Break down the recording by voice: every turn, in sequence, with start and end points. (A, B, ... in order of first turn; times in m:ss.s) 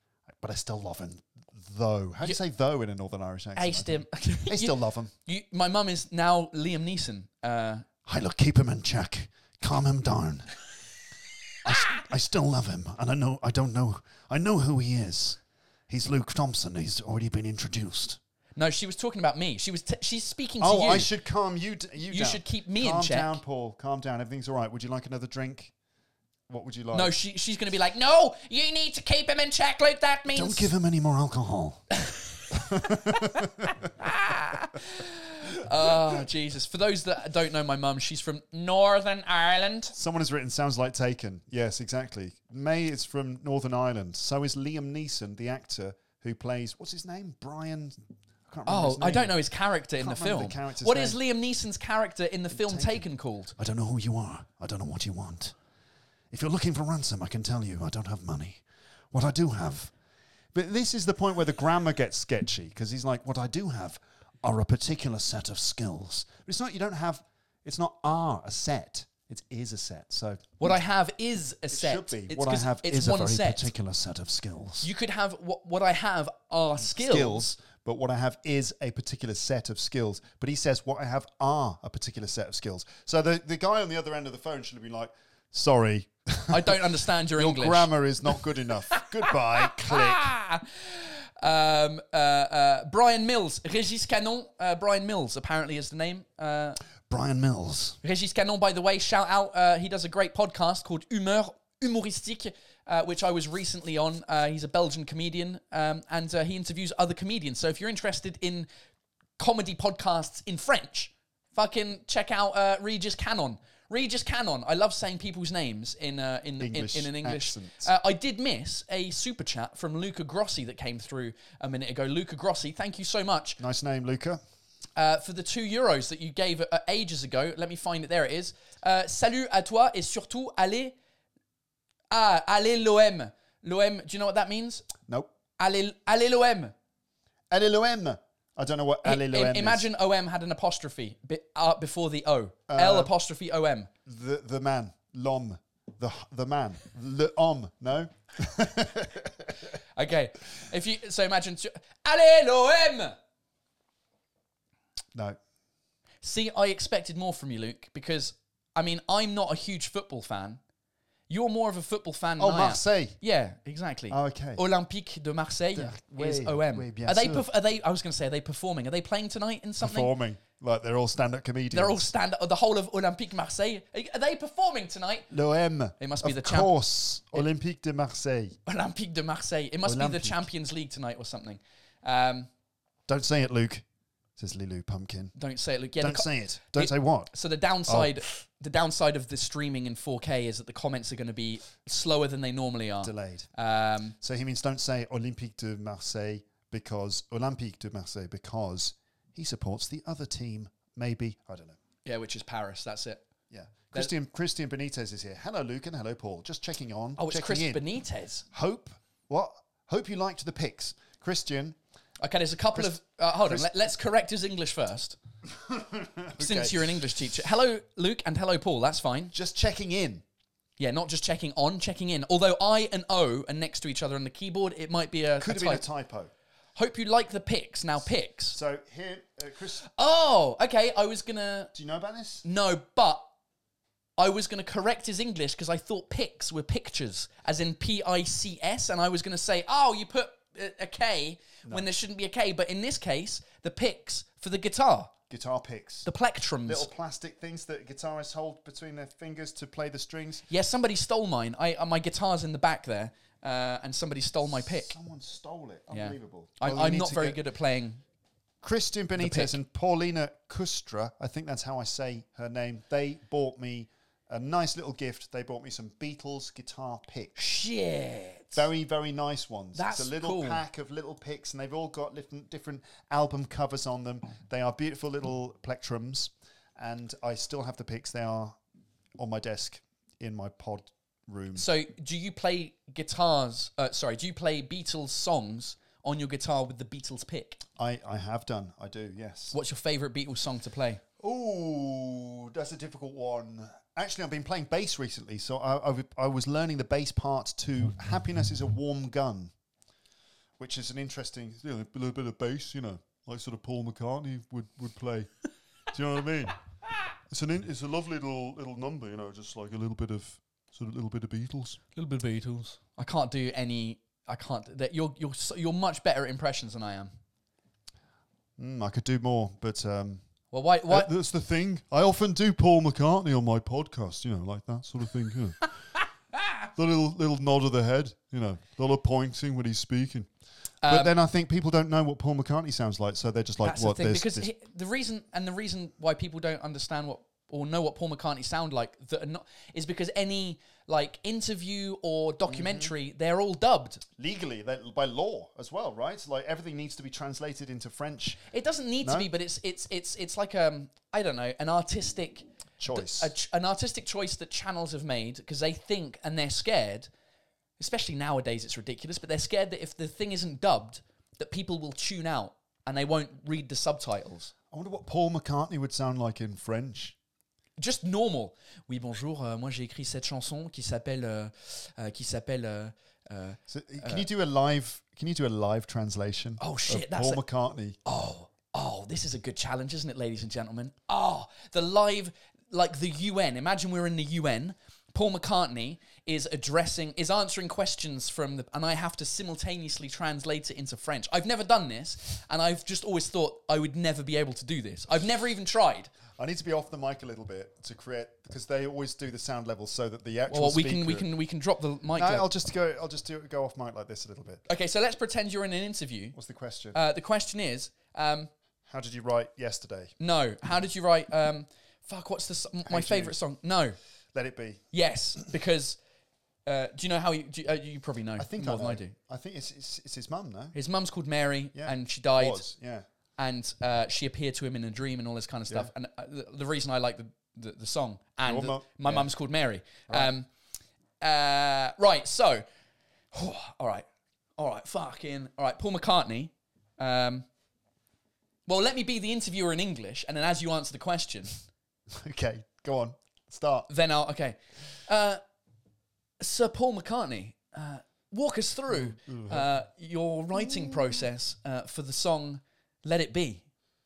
0:00.4-0:05.1 A
0:03.6-0:07.9 B
0:08.0-0:10.5 A
0:11.6-0:18.2 A
0:18.6-0:21.1 B
0:20.6-0:25.7 A
0:22.1-0:23.4 B
0:26.5-0:27.2 A
0:26.9-0:30.7 B
0:30.3-0:31.8 A
0:32.5-0:33.9 A
0:33.1-0:33.4 B
0:34.0-0:39.9 B
0:39.9-0:49.4 A
0:48.7-0:53.5 B
0:50.0-0:51.2 A
0:52.5-0:53.0 A
0:53.6-0:55.6 A
0:56.3-0:59.9 A
1:00.5-1:10.6 A
1:10.6-1:13.7 B
1:11.7-1:14.9 A
1:14.8-1:17.4 B
1:16.8-1:30.3 A
1:26.5-1:28.4 B
1:28.9-1:36.8 B
1:37.1-1:38.0 A
1:38.0-1:48.7 B
1:49.4-2:03.6 B
1:56.6-1:57.9 A
2:03.6-2:04.4 A
2:05.0-2:11.0 B
2:12.1-2:14.9 B
2:15.0-2:15.3 A
2:15.6-2:16.7 B
2:17.5-2:19.9 A
2:19.0-2:23.9 B
2:22.7-2:23.1 A
2:24.1-2:29.5 A
2:30.0-2:33.2 B
2:36.2-2:40.6 B
2:41.3-2:50.1 B
2:42.4-2:43.2 A
2:44.1-2:44.6 A
2:45.8-2:47.5 A
2:49.8-2:52.1 A
2:51.7-2:55.3 B
2:55.3-2:58.6 A
2:56.0-2:56.7 B
2:58.7-3:02.5 B
2:59.8-3:00.5 A
3:03.1-3:03.8 A
3:04.4-3:05.3 A
3:05.4-3:14.2 B
3:06.0-3:07.3 A
3:07.9-3:08.2 A
3:13.0-3:13.5 A
3:14.2-3:21.8 A
3:22.0-3:23.2 B
3:23.5-3:27.8 A
3:27.2-3:28.4 B
3:28.5-3:31.8 A
3:32.2-3:35.2 B
3:32.7-3:33.7 A
3:35.5-3:37.0 A
3:36.4-3:39.3 B
3:39.3-3:40.2 A
3:40.8-3:45.8 B
3:45.4-3:46.3 A
3:46.8-3:48.6 B
3:48.5-3:49.8 A
3:49.9-3:51.7 B
3:51.7-3:52.4 A
3:52.4-3:53.2 B
3:54.2-4:05.1 B
4:01.6-4:01.9 A
4:05.3-4:06.1 A
4:06.0-4:06.9 B
4:06.7-4:10.4 A
4:10.5-4:14.9 B
4:14.6-4:17.4 A
4:15.9-4:18.0 B
4:18.6-4:27.4 A
4:19.2-4:19.6 B
4:27.4-4:28.6 B
4:28.5-4:38.6 A
4:29.8-4:30.6 B
4:39.2-4:41.7 A
4:41.6-4:47.6 B
4:47.8-4:49.6 A
4:49.5-4:51.0 B
4:51.2-4:59.5 A
5:00.6-5:05.3 A
5:05.9-5:06.6 A
5:07.3-5:11.8 A
5:12.0-5:17.1 B
5:18.6-5:20.2 A
5:20.5-5:21.1 B
5:20.9-5:25.6 A
5:26.8-5:30.3 A
5:30.8-5:31.1 B
5:30.9-5:34.5 A
5:33.6-5:44.0 B
5:42.5-5:42.9 A
5:44.2-5:48.4 A
5:48.5-5:57.1 B
5:49.0-5:49.3 A
5:52.8-5:53.3 A
5:57.8-6:04.5 B
6:04.7-6:07.2 A
6:07.8-6:14.3 B
6:13.7-6:18.0 A
6:16.6-6:17.4 B
6:18.0-6:36.1 B
6:36.3-6:41.3 A
6:40.5-6:42.5 B
6:42.2-6:44.6 A
6:44.7-6:46.4 B
6:46.3-6:47.0 A
6:46.9-6:48.5 B
6:48.9-6:50.1 A
6:50.2-6:54.0 B
6:52.9-6:53.4 A
6:54.3-6:54.8 A
6:54.9-6:56.0 B
6:56.7-6:59.1 B
6:58.4-7:00.8 A
7:00.7-7:02.7 B
7:01.7-7:03.1 A
7:03.4-7:10.5 B
7:08.4-7:09.3 A
7:11.2-7:12.6 B
7:13.3-7:14.1 B
7:14.6-7:17.5 B
7:18.7-7:21.6 B
7:22.1-7:23.9 A
7:23.9-7:25.4 B
7:26.4-7:33.6 B
7:28.9-7:29.7 A
7:30.6-7:31.0 A